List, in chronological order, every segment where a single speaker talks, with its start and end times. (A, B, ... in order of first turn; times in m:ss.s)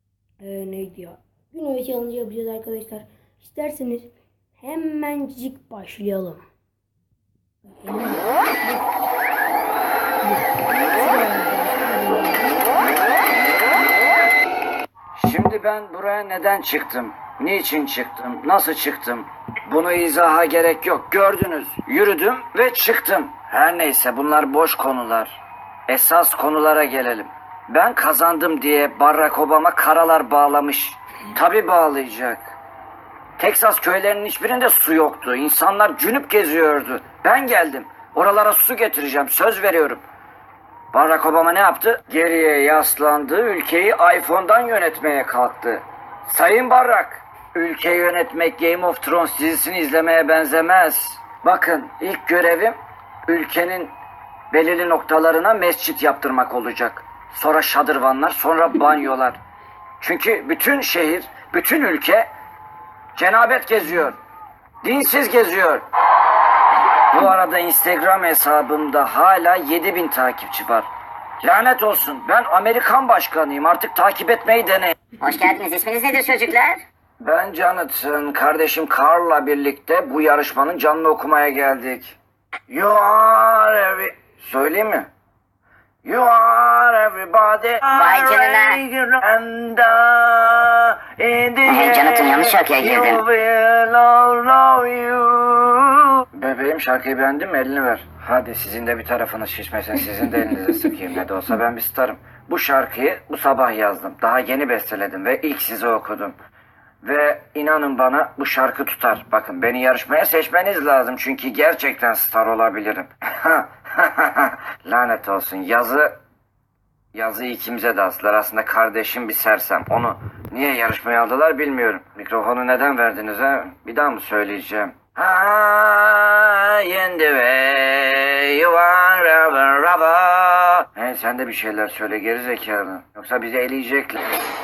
0:00.4-0:06.4 A
0:07.8-0:08.9 A
0:10.2-0:12.8 A
0:15.2-0:32.6 B
0:33.4-0:40.0 B
0:40.9-0:52.8 B
0:53.3-0:53.9 B
0:54.5-0:59.4 B
1:00.0-1:02.3 B
1:03.2-1:04.2 B
1:04.8-1:05.8 B
1:07.1-1:10.9 B
1:11.4-1:15.0 B
1:15.2-1:16.8 C
1:17.2-1:22.2 B
1:22.7-1:25.1 B
1:26.0-1:46.4 B
1:27.9-1:28.8 C
1:31.6-1:33.2 C
1:47.0-1:56.2 B
1:57.1-2:14.2 B